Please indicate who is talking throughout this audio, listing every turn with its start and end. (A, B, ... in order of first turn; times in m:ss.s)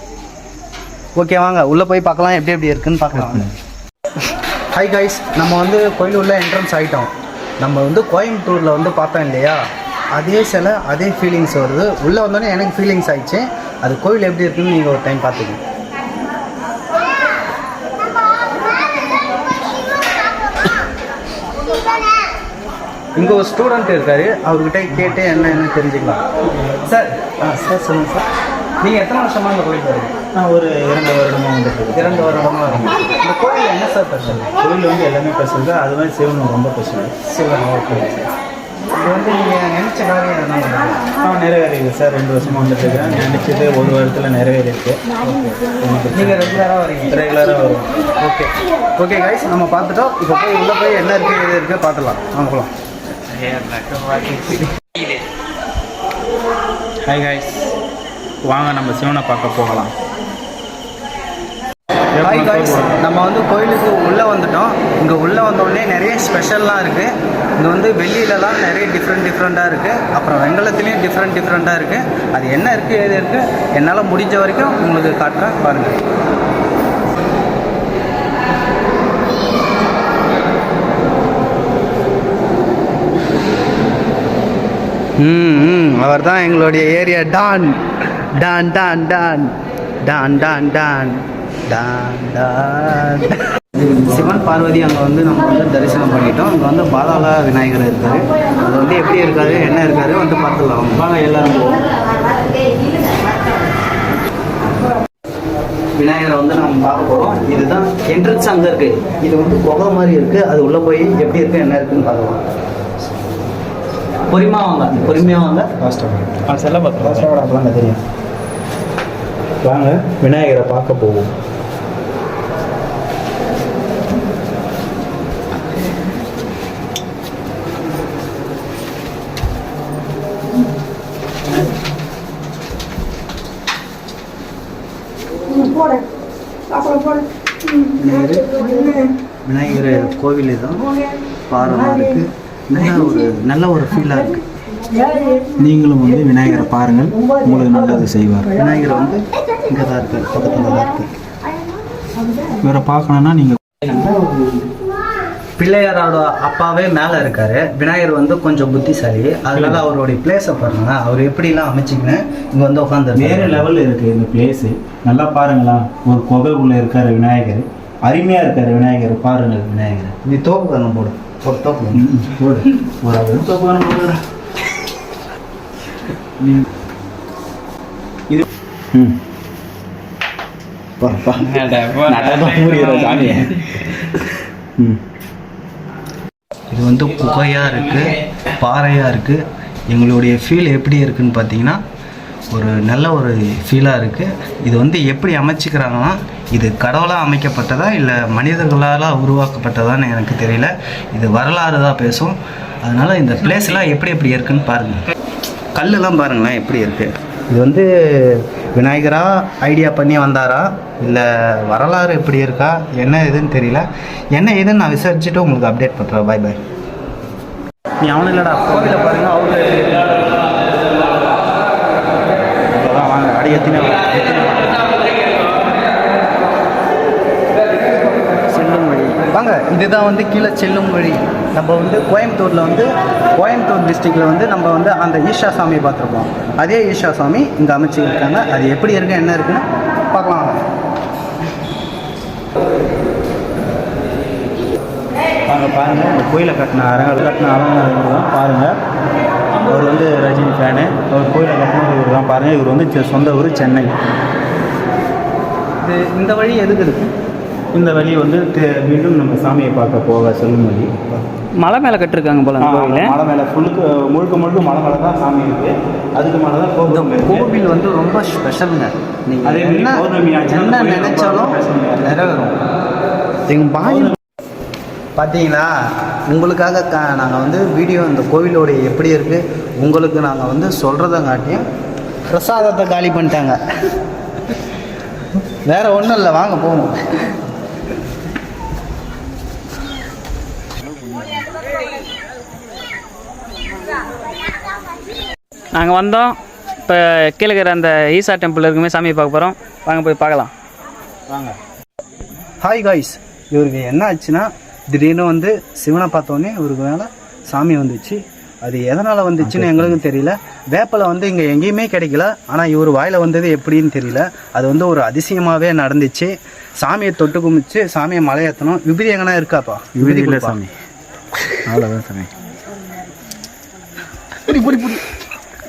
0:01.2-0:03.5 A
0:03.1-0:03.5 B
0:04.7-0:09.6 A
0:10.1-0:15.6 A
0:23.2-0:26.2 A
0:26.8-0:27.3 A
0:27.4-0:28.2 B
0:28.8-0:30.1 A
0:30.4-0:33.0 B
0:31.9-0:34.5 A
0:34.6-0:37.1 B
0:37.2-0:38.3 A
0:38.9-0:41.0 A
0:41.2-0:47.9 B
0:46.1-0:47.2 A
0:48.2-0:52.7 A
0:53.4-0:54.6 B
0:57.0-0:57.7 B
0:58.5-0:59.9 B
1:02.2-1:03.0 B
1:02.2-1:16.0 A
1:25.2-1:27.8 A
1:28.3-1:29.5 A
1:30.0-1:33.4 A
1:33.9-1:41.1 A
1:41.0-1:41.8 B
1:46.0-1:52.4 A
1:54.3-1:55.8 A
1:54.9-1:55.3 B
1:55.8-1:57.6 B
1:57.0-1:58.0 A
1:59.6-2:01.3 B
2:17.9-2:20.8 A
2:21.5-2:24.4 A
2:25.6-2:28.5 B
2:28.5-2:31.1 A
2:32.6-2:34.6 B
2:35.6-2:43.7 A
2:39.5-2:39.8 B
2:43.2-2:50.2 B
2:50.2-2:52.1 A
2:52.0-2:54.2 B
2:56.4-2:56.7 B
2:58.9-2:59.2 B
3:01.0-3:04.1 B
3:01.5-3:03.3 C
3:06.7-3:11.8 A
3:12.5-3:25.0 A
3:25.8-3:36.6 A
3:38.0-3:39.2 B
3:38.7-3:40.4 A
3:42.7-3:44.8 B
3:48.5-3:49.2 C
3:49.3-4:00.6 A
4:05.5-4:08.8 B
4:09.6-4:14.0 B
4:15.8-4:17.1 A
4:17.7-4:21.2 B
4:21.6-4:23.2 C
4:22.6-4:27.5 B
4:26.9-4:32.5 A
4:29.4-4:32.6 B
4:33.5-4:34.2 A
4:33.8-4:34.2 B
4:35.2-4:35.7 A
4:36.3-4:41.6 A
4:42.3-4:43.6 A
4:45.7-4:47.0 A
4:50.8-4:51.5 B
4:55.8-5:00.5 C
5:02.6-5:20.6 A
5:09.4-5:10.0 B
5:20.0-5:20.7 B
5:21.6-5:22.3 B
5:24.5-5:25.0 A